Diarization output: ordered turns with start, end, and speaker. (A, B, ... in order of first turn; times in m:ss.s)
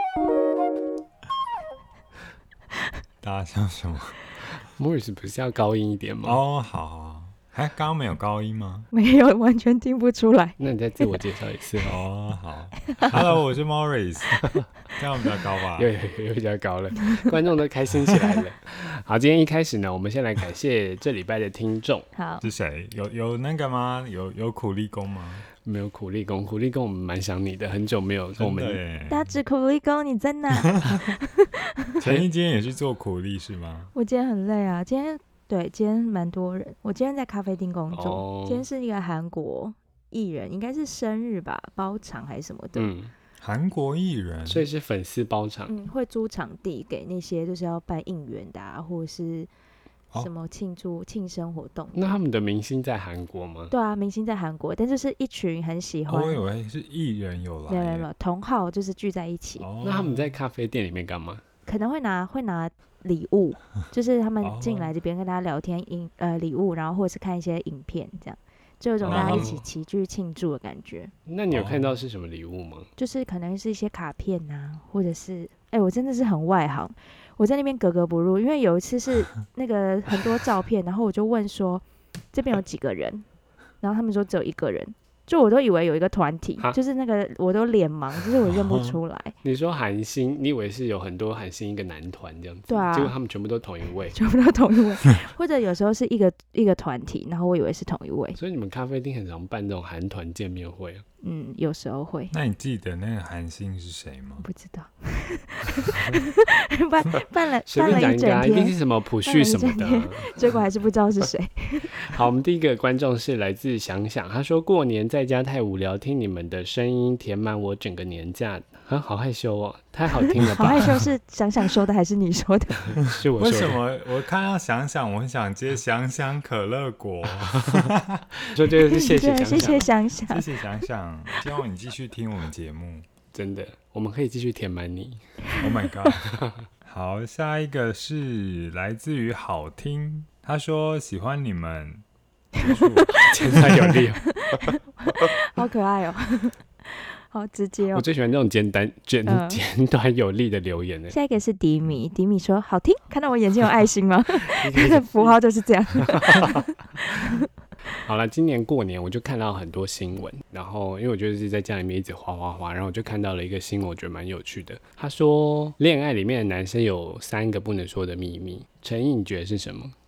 0:03.2-0:04.2 A
0:04.7-0:06.4 B
0:06.2-0:08.9 A
0:08.9-0:11.2 C
0:10.6-0:12.0 B
0:11.9-0:15.9 A
0:14.4-0:14.7 B
0:15.8-0:22.1 B
0:22.2-0:22.4 C
0:22.4-0:25.5 A
0:25.6-0:28.8 B
0:28.4-0:29.4 A
0:29.1-0:32.0 C
0:30.6-0:31.1 A
0:32.0-0:33.9 A
0:34.0-0:42.9 C
0:37.9-0:38.6 B
0:42.8-0:43.1 B
0:43.4-0:44.7 A
0:44.4-0:45.7 B
0:45.7-0:49.5 C
0:50.2-0:52.1 C
0:52.0-0:53.7 B
0:53.7-0:56.4 C
0:56.1-0:58.1 A
0:57.7-0:59.6 C
0:59.6-1:00.4 A
0:59.8-1:01.4 B
1:01.7-1:11.1 C
1:04.4-1:04.9 A
1:09.0-1:09.5 A
1:09.0-1:09.7 B
1:11.3-1:12.9 B
1:11.5-1:12.0 A
1:13.0-1:23.2 C
1:23.8-1:29.3 C
1:28.4-1:29.0 A
1:29.4-1:34.2 B
1:32.7-1:33.2 C
1:34.1-1:38.4 C
1:38.4-1:41.0 B
1:41.2-1:42.3 C
1:42.3-1:44.5 A
1:44.4-1:52.2 C
1:47.7-1:50.5 B
1:51.9-2:01.0 B
2:00.5-2:01.0 A
2:00.6-2:02.9 C
2:02.9-2:03.8 B
2:03.4-2:08.3 A
2:08.4-2:09.9 B
2:08.9-2:10.5 C
2:10.3-2:13.1 A
2:13.3-2:15.3 B
2:15.6-2:16.1 C
2:15.6-2:22.0 A
2:16.3-2:16.6 B
2:22.6-2:23.9 A
2:22.6-2:23.6 C
2:23.2-2:25.3 B
2:24.2-2:28.1 C
2:27.9-2:31.2 B
2:29.3-2:29.6 C
2:31.1-2:37.5 C
2:34.4-2:35.4 B
2:36.0-2:37.4 B
2:38.0-2:50.0 B